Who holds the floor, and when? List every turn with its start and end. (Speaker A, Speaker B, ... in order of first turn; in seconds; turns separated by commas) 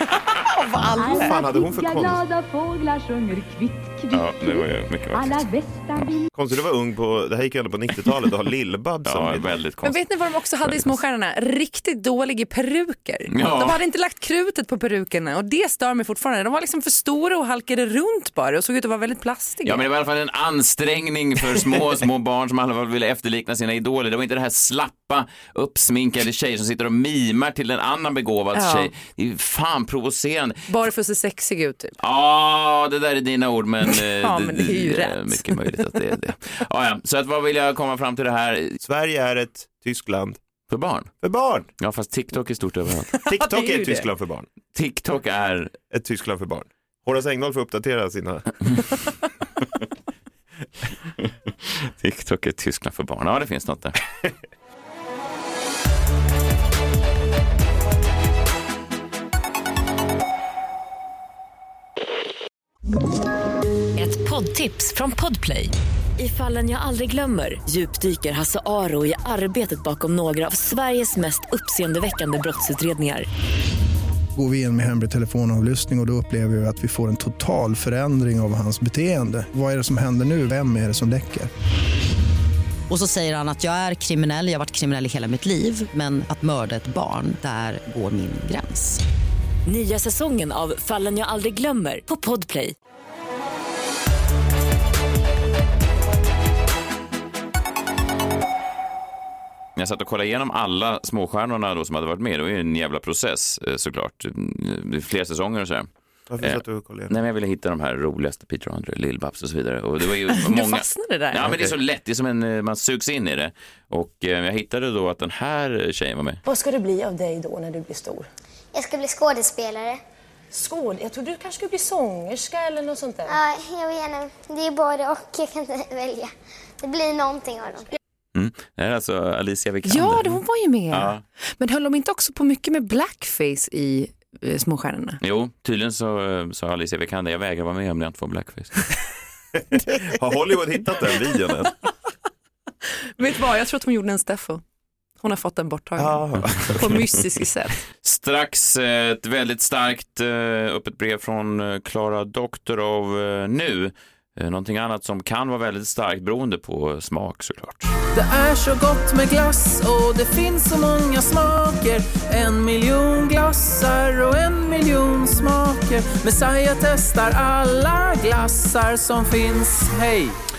Speaker A: 0.4-1.4, Speaker B: 0.9-2.2, Speaker C: 0.9-6.3, Speaker D: 4.1-5.5, Speaker B: 6.3-9.6, Speaker D: 9.0-10.1, Speaker A: 9.8-19.8, Speaker D: 10.6-10.9, Speaker D: 13.3-13.8, Speaker D: 19.6-30.7, Speaker A: 28.5-28.9, Speaker A: 30.7-32.0, Speaker D: 32.0-38.8, Speaker A: 33.9-35.6, Speaker B: 38.8-40.4, Speaker D: 40.7-41.1, Speaker B: 41.2-41.7, Speaker D: 41.8-43.1, Speaker A: 43.1-44.1, Speaker B: 43.2-44.5, Speaker D: 44.7-45.7, Speaker B: 45.9-48.6, Speaker D: 51.6-54.0, Speaker E: 64.0-73.2, Speaker F: 74.3-81.5, Speaker G: 82.9-89.0, Speaker E: 89.7-92.7, Speaker D: 99.8-105.9, Speaker B: 106.3-107.1, Speaker D: 106.4-116.4, Speaker A: 110.3-111.7, Speaker H: 116.4-118.2, Speaker I: 118.7-120.0, Speaker H: 120.5-123.3, Speaker I: 123.3-127.8, Speaker D: 128.3-130.4, Speaker A: 129.8-135.2, Speaker D: 130.9-131.2, Speaker D: 135.2-138.8, Speaker B: 139.7-141.7, Speaker A: 143.2-144.6, Speaker A: 145.2-147.8, Speaker B: 146.0-147.0, Speaker D: 148.0-157.9, Speaker J: 158.1-170.3